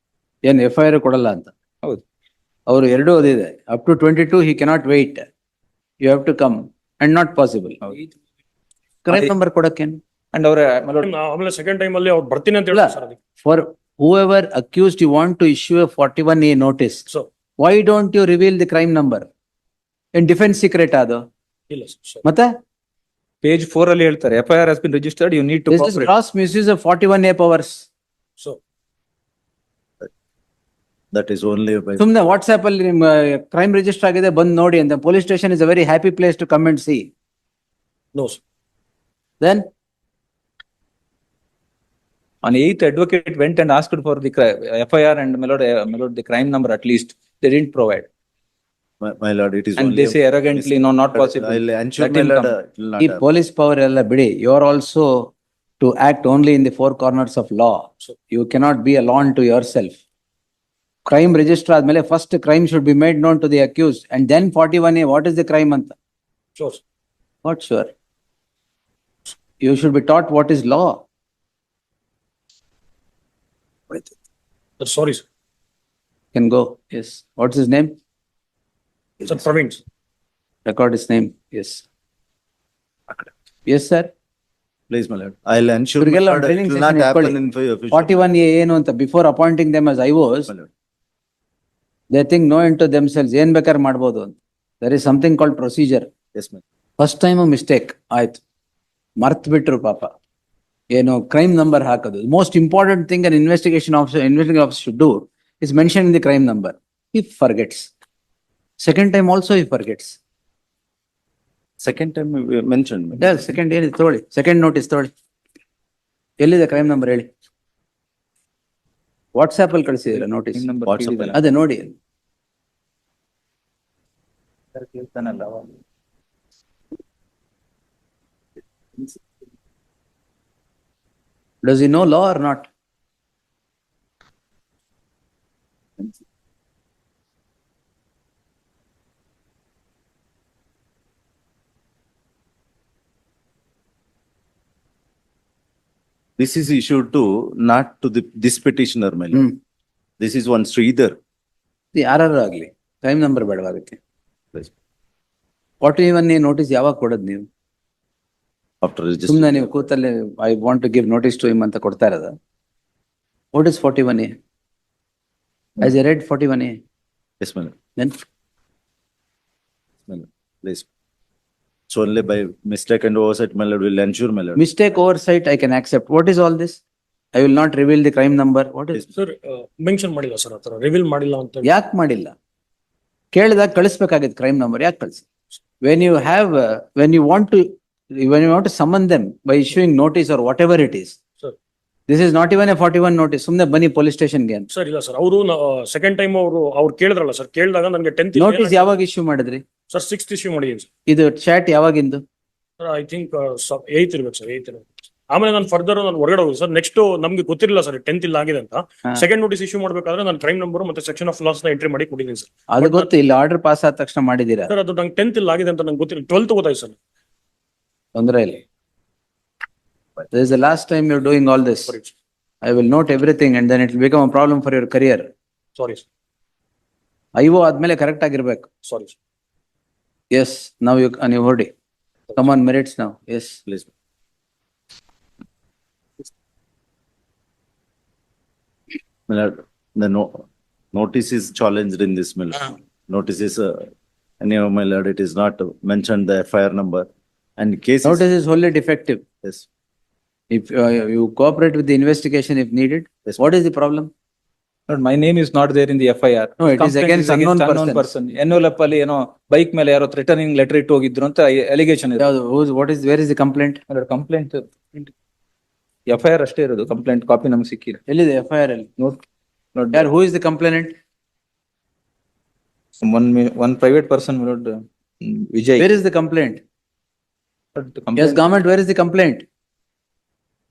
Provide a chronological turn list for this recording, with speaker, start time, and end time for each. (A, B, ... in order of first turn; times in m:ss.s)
0:00.4-0:01.5 A
0:02.7-0:05.2 A
0:06.0-0:07.8 A
0:09.0-0:10.0 A
0:10.3-0:11.1 B
0:11.0-0:13.2 C
0:12.7-0:17.0 A
0:17.6-0:19.3 A
0:20.2-0:21.2 A
0:21.7-0:22.2 C
0:22.2-0:22.5 A
0:23.4-0:26.1 B
0:25.7-0:27.9 A
0:31.1-0:32.0 D
0:32.0-0:37.1 A
0:38.1-0:38.4 C
0:39.4-0:39.7 A
0:42.4-0:48.1 B
0:49.0-0:53.2 D
0:49.8-0:52.5 B
0:53.0-1:00.0 A
1:01.1-1:06.0 A
1:06.6-1:06.8 C
1:07.4-1:07.9 A
1:09.6-1:11.0 A
1:14.8-1:15.2 C
1:16.3-1:17.9 A
1:19.2-1:19.8 C
1:20.7-1:21.8 A
1:23.7-1:24.1 A
1:24.9-1:28.3 D
1:26.0-1:27.4 A
1:27.9-1:30.5 A
1:32.1-1:36.1 A
1:36.4-1:36.6 D
1:37.0-1:38.4 A
1:39.2-1:40.1 A
1:40.9-1:47.9 A
1:48.8-1:50.2 A
1:51.8-1:53.3 D
1:53.2-1:55.1 A
1:56.4-1:57.3 A
1:59.4-2:00.7 A
2:00.5-2:01.4 B
2:00.9-2:01.4 D
2:01.3-2:02.0 A
2:04.8-2:05.8 B
2:11.6-2:12.7 A
2:26.4-2:29.5 D
2:30.2-2:31.2 D
2:32.0-2:34.0 A
2:35.8-2:37.5 A
2:38.8-2:39.9 D
2:39.3-2:42.4 A
2:43.5-2:44.3 A
2:45.8-2:46.8 A
2:47.4-2:47.8 D
2:50.1-2:50.9 D
2:51.9-2:54.6 D
2:54.6-2:56.8 A
2:57.3-2:59.0 A
2:59.2-3:01.7 C
3:01.6-3:02.3 A
3:03.3-3:05.2 A
3:05.8-3:11.2 A
3:12.1-3:14.7 A
3:14.7-3:18.9 C
3:18.4-3:19.6 A
3:19.9-3:20.9 C
3:21.1-3:22.2 A
3:22.8-3:33.1 C
3:32.7-3:34.7 A
3:34.7-3:37.0 C
3:38.2-3:38.6 A
3:40.3-3:41.9 A
3:41.9-3:42.2 C
3:42.6-3:45.3 A
3:45.8-3:46.1 C
3:47.4-3:48.7 A
3:48.8-3:49.2 C
3:50.3-3:51.7 A
3:52.4-3:53.6 A
3:59.3-4:03.9 D
4:04.4-4:08.3 D
4:08.0-4:09.2 A
4:10.5-4:14.1 A
4:13.2-4:13.5 D
4:14.9-4:22.3 B
4:16.6-4:18.1 A
4:22.2-4:23.8 A
4:23.9-4:25.1 B
4:26.1-4:28.0 B
4:28.1-4:28.9 A
4:29.8-4:30.1 B
4:29.9-4:30.9 A
4:33.0-4:35.9 B
4:35.8-4:36.6 A
4:37.8-4:38.4 B
4:38.2-4:39.4 A